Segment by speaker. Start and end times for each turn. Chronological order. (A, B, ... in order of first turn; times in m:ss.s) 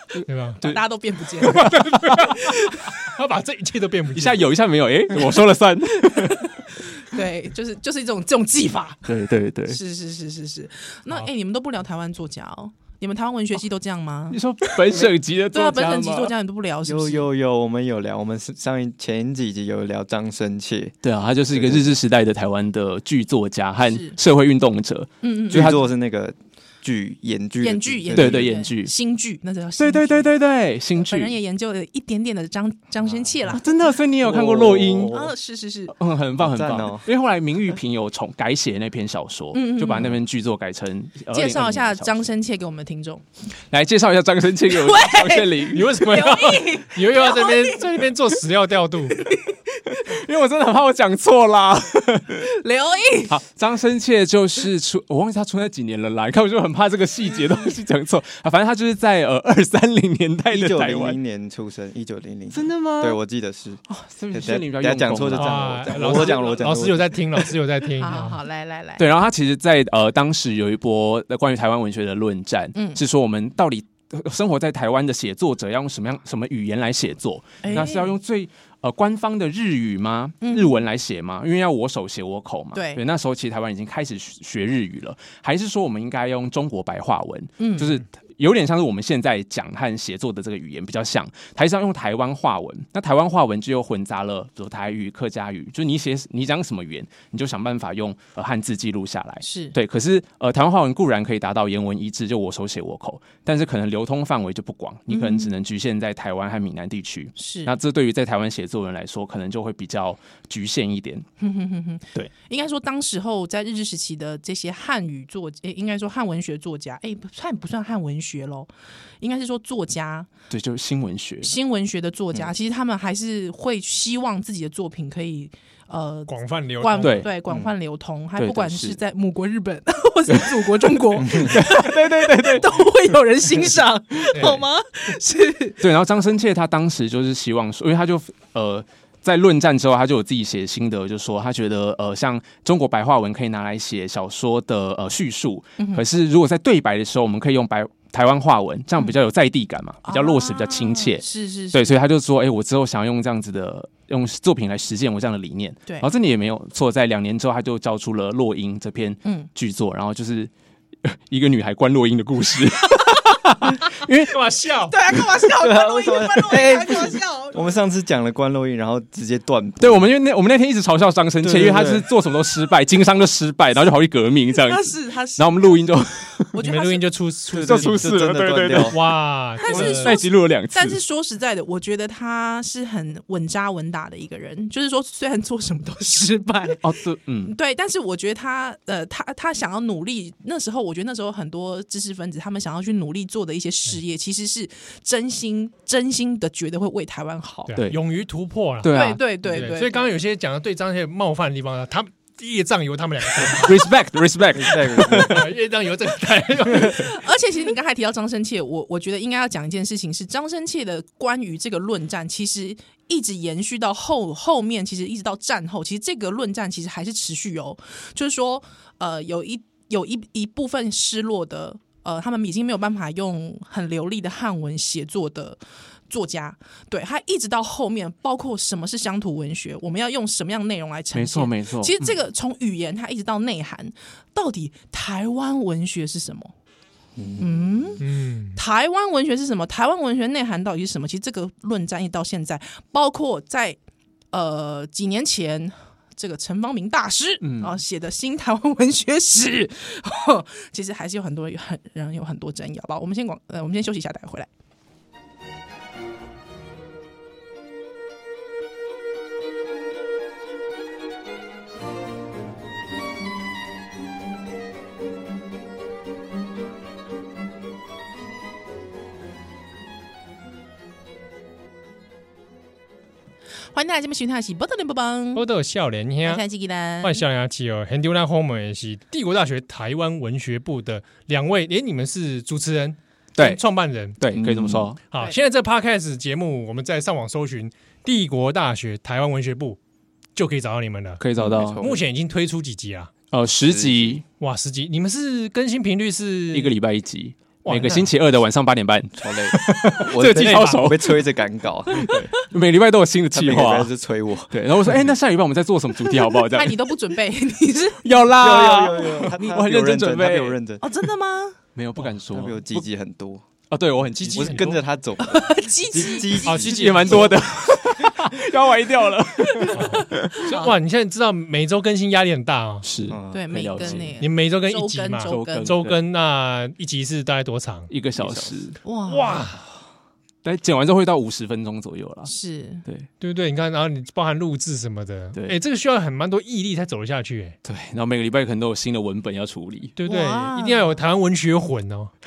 0:00.2-0:00.6 A
0:00.6-0:02.8 B
0:01.4-0:02.3 C
0:01.7-0:04.4 A
0:04.1-0:06.5 C
0:06.1-0:09.1 B
0:09.1-0:09.8 C
0:09.7-0:17.2 B
0:14.3-0:16.3 C
0:16.8-0:20.9 D
0:21.0-0:25.8 C
0:21.5-0:22.0 D
0:23.8-0:24.2 B
0:25.2-0:25.7 B
0:25.5-0:28.6 D
0:27.6-0:30.3 B
0:28.1-0:28.9 C
0:29.8-0:31.3 C
0:31.0-0:33.6 B
0:33.4-0:35.2 C
0:34.2-0:35.3 D
0:35.1-0:35.9 B
0:35.9-0:42.2 C
0:36.4-0:37.0 D
0:39.5-0:40.2 B
0:41.3-0:43.2 B
0:43.7-0:45.9 C
0:44.7-0:48.1 B
0:45.7-0:49.3 A
0:49.1-0:50.1 B
0:50.0-0:52.4 C
0:52.4-0:53.3 B
0:53.3-1:01.2 C
1:00.5-1:07.2 D
1:02.5-1:03.2 C
1:04.1-1:06.3 C
1:05.4-1:08.4 A
1:08.0-1:09.0 B
1:09.0-1:51.2 C
1:12.7-1:13.0 B
1:17.6-1:18.1 B
1:20.4-1:20.8 B
1:22.7-1:23.0 B
1:27.6-1:28.0 B
1:39.4-1:39.7 B
1:45.1-1:45.5 B
1:47.4-1:47.7 B
1:51.4-1:58.7 B
1:59.2-2:00.3 B
2:00.5-2:01.5 C
2:01.4-2:15.8 B
2:06.3-2:07.3 A
2:07.0-2:07.3 C
2:08.4-2:09.0 C
2:11.3-2:12.8 C
2:14.3-2:14.6 A
2:15.8-2:40.5 C
2:25.8-2:26.0 B
2:30.0-2:31.9 B
2:39.2-2:39.5 B
2:41.0-2:44.4 C
2:44.3-2:45.0 A
2:44.9-2:47.6 B
2:45.6-2:50.0 D
2:49.8-2:56.5 C
2:51.4-2:52.0 D
2:54.6-2:55.9 B
2:56.5-2:57.0 B
2:56.6-2:58.1 A
2:57.5-2:59.0 D
2:57.5-2:59.0 C
2:58.8-3:00.1 A
2:59.6-3:06.8 B
2:59.7-3:01.0 C
3:06.8-3:07.5 C
3:07.4-3:17.8 B
3:17.7-3:18.9 A
3:18.8-3:19.2 C
3:18.9-3:20.1 B
3:19.4-3:23.9 A
3:23.6-3:25.5 C
3:24.5-3:25.5 D
3:24.9-3:27.1 A
3:26.7-3:45.6 B
3:46.1-3:56.5 B
3:51.1-3:52.1 C
3:57.2-3:58.0 D
3:57.4-4:03.8 B
3:58.0-3:58.6 A
4:04.3-4:14.5 B
4:07.4-4:07.8 C
4:33.7-4:35.4 B
4:35.3-4:36.4 A
4:36.2-4:37.2 B
4:37.0-4:44.2 A
4:43.4-4:43.6 C
4:44.2-4:45.0 C
4:44.3-4:44.9 D
4:45.1-4:49.8 A
4:50.4-4:51.2 A
4:51.2-4:51.9 C
4:51.4-4:52.0 D
4:51.8-4:53.1 A
4:53.3-4:54.2 C
4:53.6-4:54.2 D
4:54.4-4:56.7 A
4:56.5-5:01.2 C
4:57.6-4:58.1 A
4:59.2-5:02.1 D
5:00.3-5:00.8 A
5:01.9-5:03.9 C
5:03.3-5:05.1 D
5:04.5-5:06.8 C
5:06.3-5:08.0 B
5:08.0-5:10.6 C
5:08.4-5:10.8 D
5:10.8-5:11.6 B
5:11.7-5:12.8 C
5:12.3-5:13.4 D
5:13.7-5:14.8 C
5:14.2-5:14.8 A
5:14.3-5:17.3 D
5:15.2-5:17.2 B
5:16.4-5:17.4 A
5:16.6-5:20.7 C
5:19.5-5:20.7 B
5:19.7-5:22.8 A
5:22.8-5:24.2 C
5:23.1-5:24.1 D
5:23.3-5:25.8 B
5:24.2-5:27.9 A
5:25.3-5:26.0 C
5:27.9-5:28.8 C
5:28.2-5:28.6 D
5:28.8-5:29.5 B
5:29.1-5:29.6 A
5:30.4-5:32.3 C
5:32.3-5:32.8 B
5:33.2-5:37.6 A
5:37.6-5:39.9 C
5:40.0-5:42.1 A
5:40.0-5:41.0 B